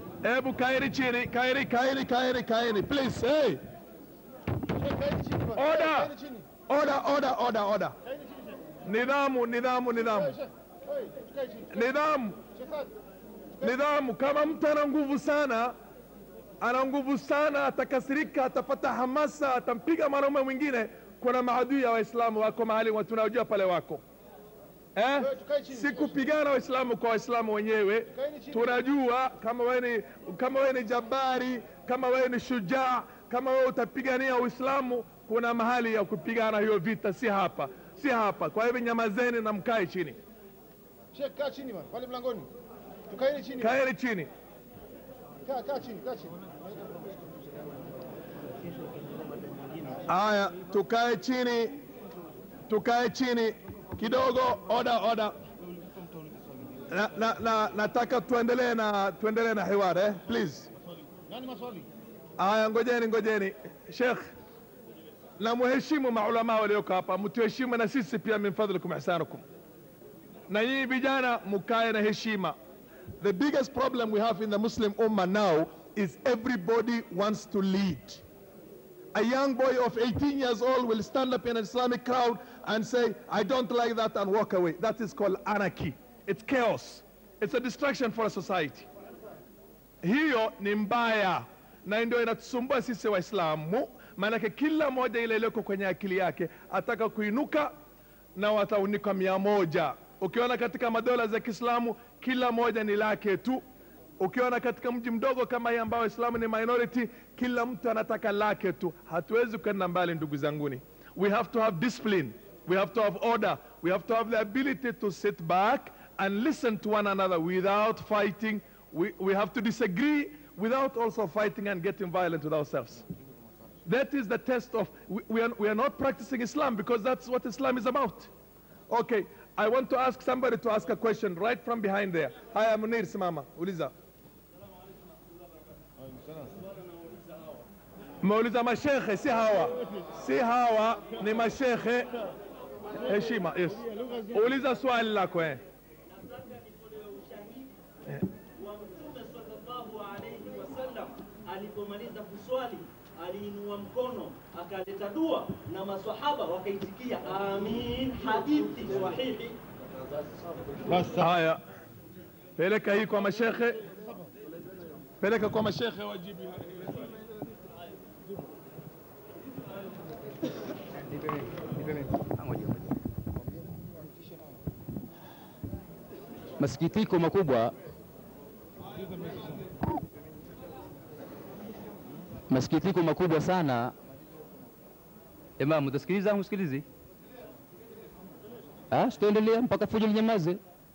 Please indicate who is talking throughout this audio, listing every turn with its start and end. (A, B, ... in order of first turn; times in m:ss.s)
0:00.2-0:03.6 A
0:04.7-0:06.5 B
0:05.6-0:06.1 A
0:06.7-0:08.0 A
0:08.1-0:08.5 B
0:08.8-0:10.4 A
0:10.0-0:11.9 B
0:11.7-0:12.4 A
0:12.5-0:12.9 B
0:13.6-0:15.7 A
0:16.6-0:24.0 A
0:25.0-0:40.2 A
0:25.2-0:26.2 B
0:28.1-0:28.8 B
0:41.1-0:42.5 B
0:43.1-0:43.7 B
0:43.6-0:44.3 A
0:45.4-0:47.1 B
0:50.1-0:51.7 A
0:52.7-0:55.3 A
0:56.9-1:00.7 A
1:01.3-1:01.8 B
1:02.4-1:04.3 A
1:05.4-1:09.4 A
1:10.5-1:12.6 A
1:13.2-1:18.2 A
1:19.1-1:28.9 A
1:30.0-1:37.7 A
1:38.4-1:43.6 A
1:44.2-2:03.0 A
2:03.8-2:08.3 A
2:08.9-2:13.9 A
2:18.2-2:22.1 A
2:23.0-2:25.6 A
2:26.1-2:27.7 C
2:28.6-2:39.6 C
2:40.9-2:41.6 A
2:42.6-2:43.8 A
2:45.2-2:47.1 A
2:52.2-2:52.8 D
2:56.6-2:57.7 D
3:02.5-3:03.9 D
3:05.6-3:06.8 D
3:08.9-3:10.6 D